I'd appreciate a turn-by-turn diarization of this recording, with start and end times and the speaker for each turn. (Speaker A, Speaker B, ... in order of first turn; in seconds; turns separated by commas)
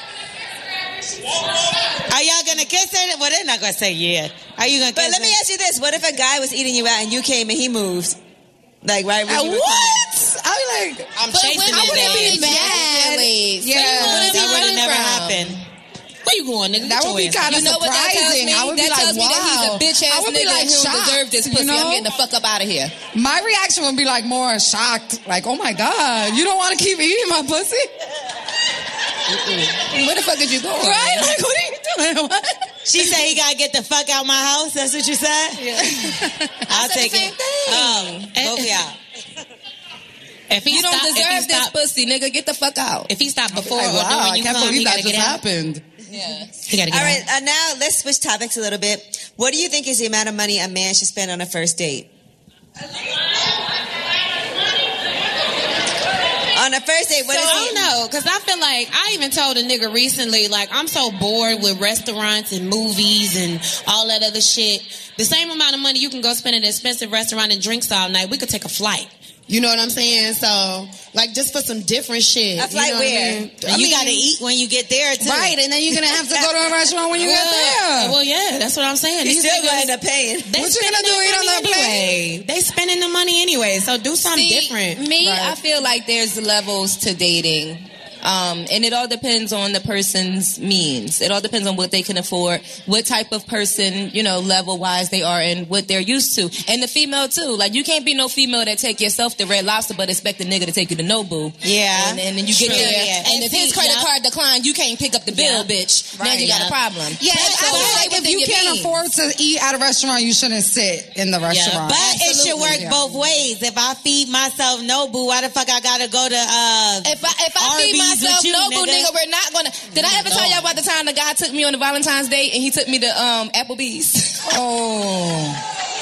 Speaker A: 2.1-5.4, Speaker B: 4.9-8.2, Speaker B: 8.8-10.0, Speaker C: 9.3-11.1, Speaker D: 11.1-12.8, Speaker E: 11.3-15.6, Speaker C: 11.7-14.5, Speaker A: 13.8-15.6, Speaker D: 14.2-14.8, Speaker D: 16.2-17.7, Speaker C: 16.8-22.1, Speaker E: 17.4-22.9, Speaker C: 23.1-27.9, Speaker E: 29.9-31.4, Speaker C: 30.8-32.5, Speaker A: 32.9-35.7, Speaker C: 35.7-36.6, Speaker A: 36.7-38.9, Speaker E: 36.7-38.3, Speaker D: 38.4-38.7, Speaker D: 40.5-41.7, Speaker E: 40.7-43.1, Speaker D: 43.1-45.4, Speaker C: 43.5-45.8, Speaker E: 46.1-46.5, Speaker D: 46.7-47.2, Speaker B: 46.9-52.1, Speaker B: 56.5-57.9, Speaker D: 57.3-74.3, Speaker B: 72.6-73.5, Speaker A: 73.7-75.5, Speaker C: 75.2-78.2, Speaker D: 77.2-79.9, Speaker B: 79.2-80.5, Speaker D: 80.5-85.0, Speaker C: 80.5-82.1, Speaker E: 84.3-109.0, Speaker C: 85.1-85.6, Speaker A: 101.6-104.0, Speaker A: 105.3-105.6, Speaker C: 106.2-106.5, Speaker A: 106.2-106.7, Speaker C: 107.2-113.0, Speaker A: 107.3-108.2, Speaker A: 111.5-119.1, Speaker E: 117.0-124.6, Speaker A: 119.9-120.7, Speaker C: 124.5-125.6